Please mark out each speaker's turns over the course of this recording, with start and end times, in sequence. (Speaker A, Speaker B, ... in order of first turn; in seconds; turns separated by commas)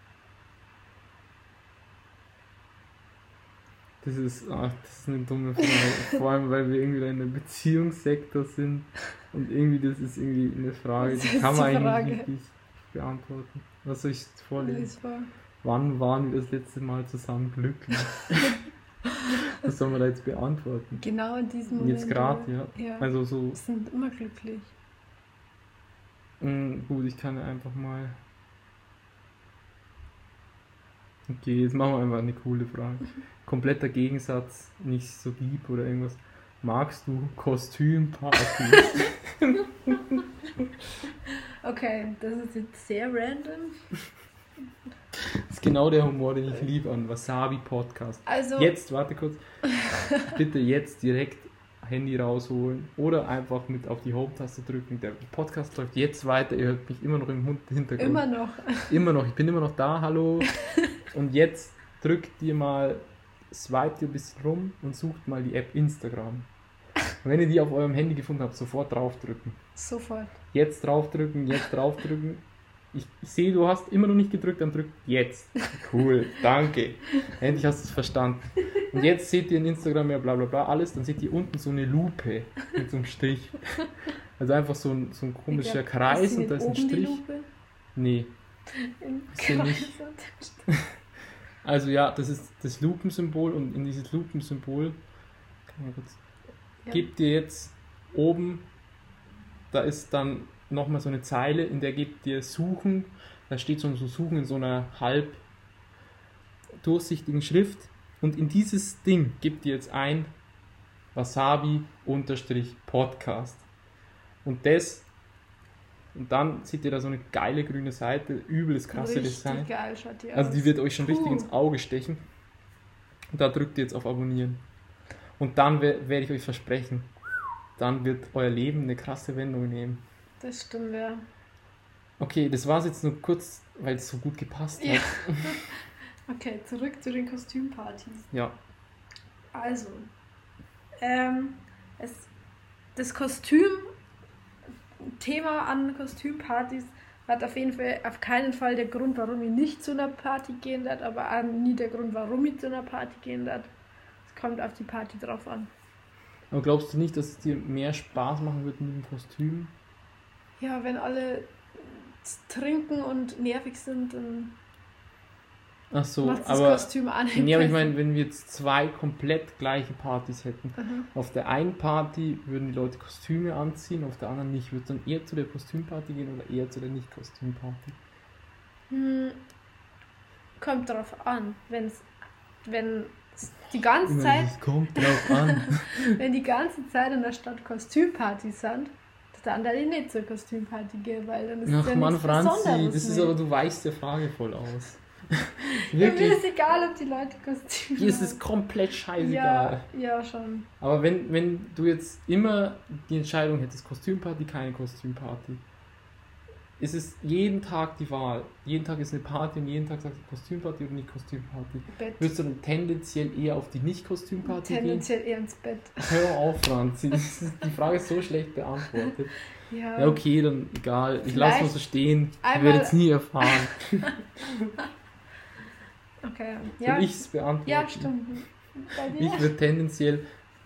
Speaker A: 4.0-14.9, Speaker B: 11.0-12.3, Speaker B: 14.6-15.3, Speaker A: 15.6-18.6, Speaker A: 19.5-21.0, Speaker B: 21.0-24.7, Speaker A: 21.8-23.6, Speaker A: 26.4-28.2, Speaker A: 31.3-40.7, Speaker B: 41.6-43.8, Speaker A: 45.2-49.4, Speaker B: 48.2-48.7, Speaker A: 50.2-58.2, Speaker B: 58.0-59.0, Speaker A: 58.8-60.5, Speaker A: 61.1-66.5, Speaker A: 67.2-69.6, Speaker B: 69.8-70.4, Speaker A: 70.5-87.2, Speaker B: 85.5-87.5, Speaker A: 87.9-88.3, Speaker B: 88.7-90.7, Speaker A: 89.3-90.0, Speaker A: 90.7-91.0, Speaker A: 91.6-95.0, Speaker A: 95.7-96.2, Speaker A: 96.9-98.7, Speaker A: 99.7-105.4, Speaker A: 106.8-110.3, Speaker A: 111.1-113.6, Speaker A: 114.4-115.1, Speaker A: 116.1-119.7, Speaker B: 118.9-121.5, Speaker A: 120.3-122.2, Speaker A: 123.3-124.6, Speaker A: 125.4-127.1, Speaker A: 127.8-130.0, Speaker B: 130.4-131.2, Speaker A: 132.2-135.6, Speaker B: 134.8-138.3, Speaker A: 138.3-138.6, Speaker B: 139.5-140.1, Speaker B: 141.0-142.3, Speaker B: 142.9-143.9, Speaker B: 145.0-153.7, Speaker B: 154.3-155.7, Speaker A: 156.5-159.7, Speaker B: 160.6-164.6, Speaker A: 165.9-178.0, Speaker B: 166.2-167.9, Speaker B: 170.8-171.1, Speaker B: 178.9-179.4, Speaker B: 180.6-182.1, Speaker B: 182.6-193.3, Speaker A: 184.0-186.2, Speaker A: 191.7-196.4, Speaker B: 195.6-198.4, Speaker A: 198.0-199.9, Speaker B: 199.2-200.7, Speaker A: 200.8-205.6, Speaker A: 206.8-215.1, Speaker B: 211.9-212.3, Speaker B: 214.4-216.3, Speaker A: 216.0-219.3, Speaker B: 219.7-220.2, Speaker A: 219.9-224.7, Speaker B: 221.3-221.8, Speaker B: 222.4-223.7, Speaker B: 226.2-229.5, Speaker A: 226.8-228.2, Speaker A: 229.0-230.2